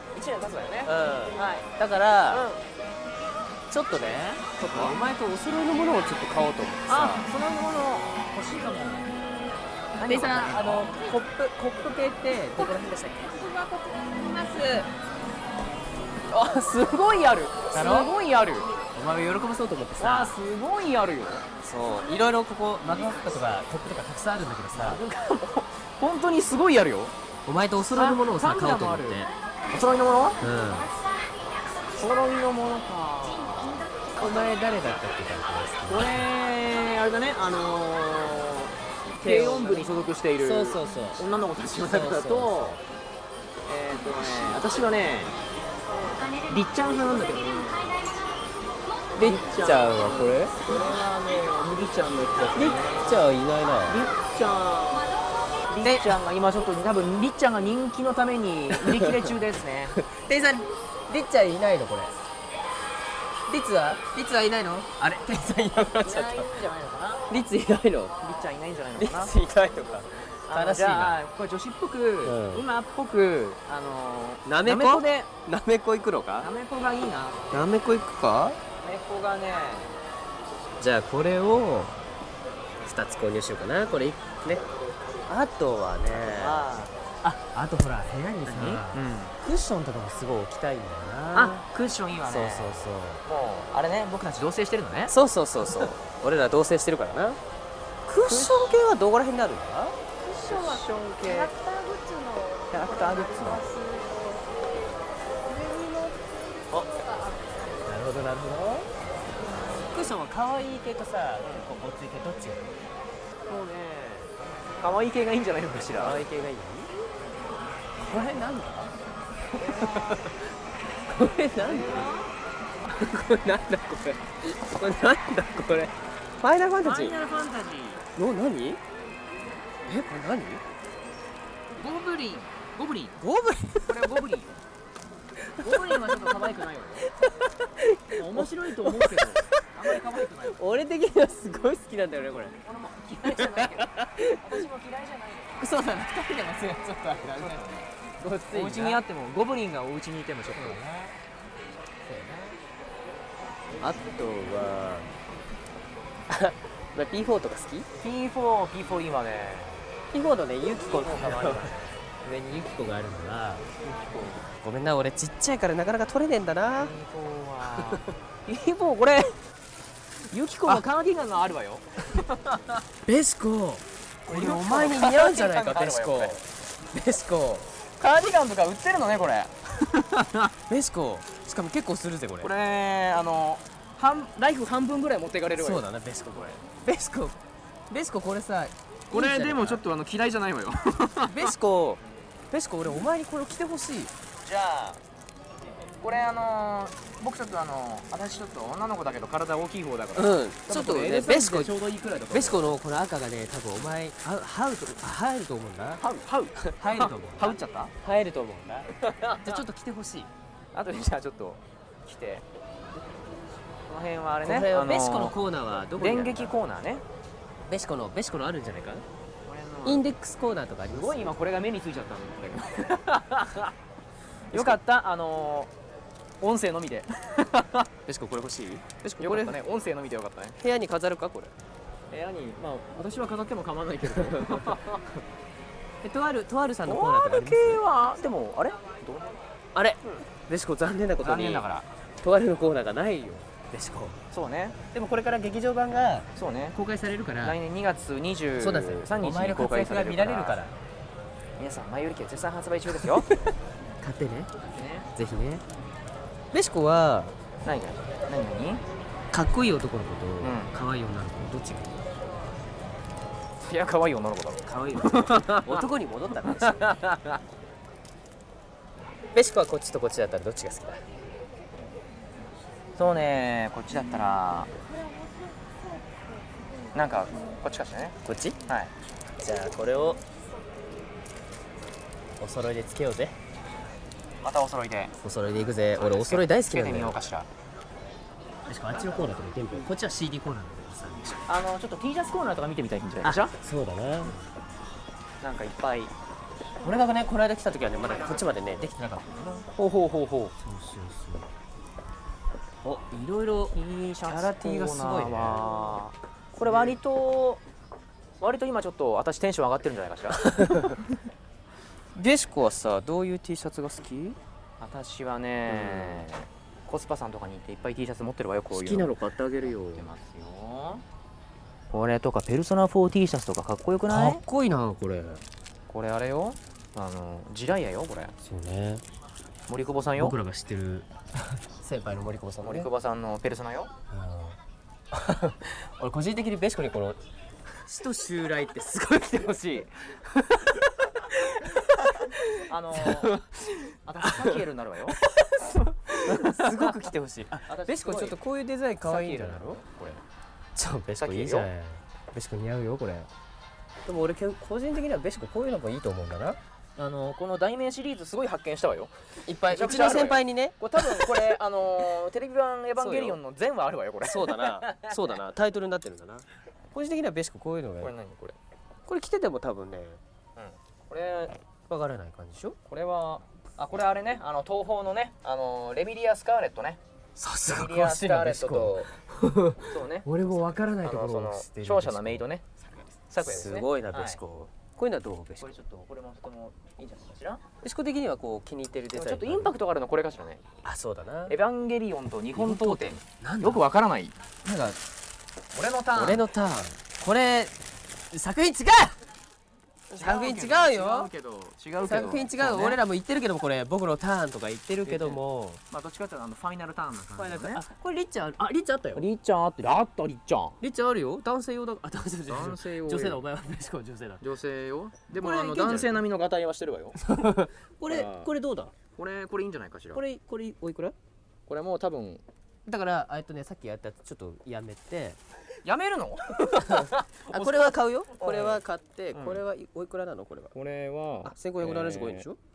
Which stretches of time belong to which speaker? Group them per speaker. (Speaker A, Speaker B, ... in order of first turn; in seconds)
Speaker A: 0.1-1.7, 2.3-2.6, 4.5-5.0, 6.9-9.1, 9.9-11.0, 16.3-18.7, 20.0-21.4, 24.7-27.1, 27.9-30.4, 31.9-33.8, 35.9-42.8, 43.6-45.4, 46.0-48.0, 49.2-53.2, 53.9-55.1, 55.7-60.0, 66.0-67.3, 68.2-69.3, 70.5-75.3, 76.4-77.5, 78.8-79.9, 86.2-87.0, 88.5-89.3, 91.3-95.1, 98.2-98.7, 100.2-101.7, 102.7-104.1, 111.4-111.7, 113.5-113.9, 114.8-116.2, 119.6-120.2, 121.6-122.3, 126.8-128.0, 131.8-133.2, 133.8-134.6, 135.6-137.1, 138.1-140.6, 142.6-145.8, 147.3-147.9, 148.5-150.8, 158.0-159.8, 160.9-161.7, 163.8-164.4, 166.7-169.4, 170.3-172.8, 174.3-176.4, 178.0-180.5, 182.4-185.8, 189.1-191.5, 194.4-195.0, 196.0-202.8, 206.0-207.9, 209.0-209.6, 210.7-212.4, 213.9-215.3, 216.0-217.0, 219.4-220.1, 220.9-223.7, 224.5-225.7, 226.4-227.9, 229.2-230.6, 232.1-235.2, 236.8-239.4, 241.2-241.9, 244.3-244.8, 246.3-246.8, 247.4-250.6, 251.6-253.3, 254.6-255.1, 257.6-258.8, 260.4-260.7, 263.6-265.9, 266.4-267.4, 272.9-274.7, 276.9-278.9, 284.4-285.1, 285.9-287.5, 291.5-293.5, 295.4-296.1, 299.7-300.5, 302.9-307.6, 308.4-310.4, 314.8-321.0, 321.9-324.4, 325.9-328.3, 329.7-330.4, 332.6-333.9, 342.6-345.2, 346.2-347.1, 347.7-348.4, 349.0-350.2, 351.2-351.7, 357.0-359.1, 359.7-365.3, 368.0-368.6, 370.6-371.6, 372.9-377.0, 377.7-379.1, 379.8-382.7, 383.3-384.4, 385.6-387.6, 389.1-390.6, 391.5-394.3, 395.7-396.4, 400.2-403.0, 405.0-407.8, 409.1-410.8, 412.5-413.4, 414.4-417.2, 418.1-418.5, 419.1-420.2, 421.7-422.4, 425.8-428.8, 429.3-429.6, 430.7-432.4
Speaker B: 0.8-2.5, 3.7-7.2, 10.0-14.9, 17.7-18.1, 18.9-20.4, 21.6-25.0, 27.4-29.3, 30.4-30.9, 34.1-36.2, 39.2-39.9, 40.4-41.2, 41.9-42.8, 49.1-50.5, 52.5-54.0, 55.8-56.1, 58.8-59.2, 60.0-62.1, 63.5-66.5, 67.3-68.2, 69.0-71.2, 72.2-72.6, 74.4-76.5, 77.5-78.6, 80.8-82.0, 82.8-84.7, 85.3-86.6, 87.2-91.6, 92.3-93.2, 95.1-97.4, 98.1-100.8, 101.3-102.5, 103.7-104.4, 105.5-108.9, 109.8-112.7, 113.5-114.3, 115.9-116.9, 118.0-118.9, 119.6-120.4, 121.0-122.2, 122.9-127.2, 128.2-128.8, 129.8-130.6, 133.2-133.9, 135.5-136.4, 137.2-139.4, 140.4-142.6, 143.3-144.5, 145.6-147.6, 148.2-149.0, 150.5-151.1, 152.1-152.6, 153.8-155.1, 156.3-157.9, 160.1-163.6, 164.5-166.9, 173.1-177.7, 180.7-182.5, 185.6-187.4, 187.9-189.8, 191.2-194.1, 200.2-201.7, 202.3-206.0, 206.6-210.3, 214.4-216.6, 217.7-219.0, 219.8-221.3, 228.1-229.6, 230.6-231.5, 236.0-237.8, 239.7-241.6, 242.2-244.2, 244.9-247.6, 248.6-250.7, 253.0-254.5, 255.2-255.6, 256.5-257.4, 259.3-262.1, 264.6-266.9, 269.3-271.0, 278.2-278.6, 279.4-280.2, 282.4-283.4, 285.2-287.2, 288.7-291.4, 293.2-294.4, 296.8-299.7, 300.6-301.5, 304.2-305.8, 310.4-311.0, 312.1-314.4, 315.7-316.2, 318.7-320.1, 324.1-325.4, 328.4-329.0, 330.2-332.9, 334.1-334.6, 335.1-337.2, 337.8-340.6, 341.4-341.7, 342.2-343.4, 344.2-344.6, 345.2-349.8, 350.8-353.3, 354.0-356.6, 359.4-361.5, 363.0-363.4, 364.2-368.1, 369.1-370.2, 371.9-372.8, 377.4-385.7, 387.8-389.7, 390.8-391.6, 392.5-393.8, 394.6-395.0, 396.1-397.8, 398.3-399.1, 400.1-401.3, 402.0-405.8, 407.3-409.2, 410.8-414.4, 415.4-416.2, 417.2-418.9, 420.1-421.1, 422.9-425.4, 426.8-430.7, 431.4-432.6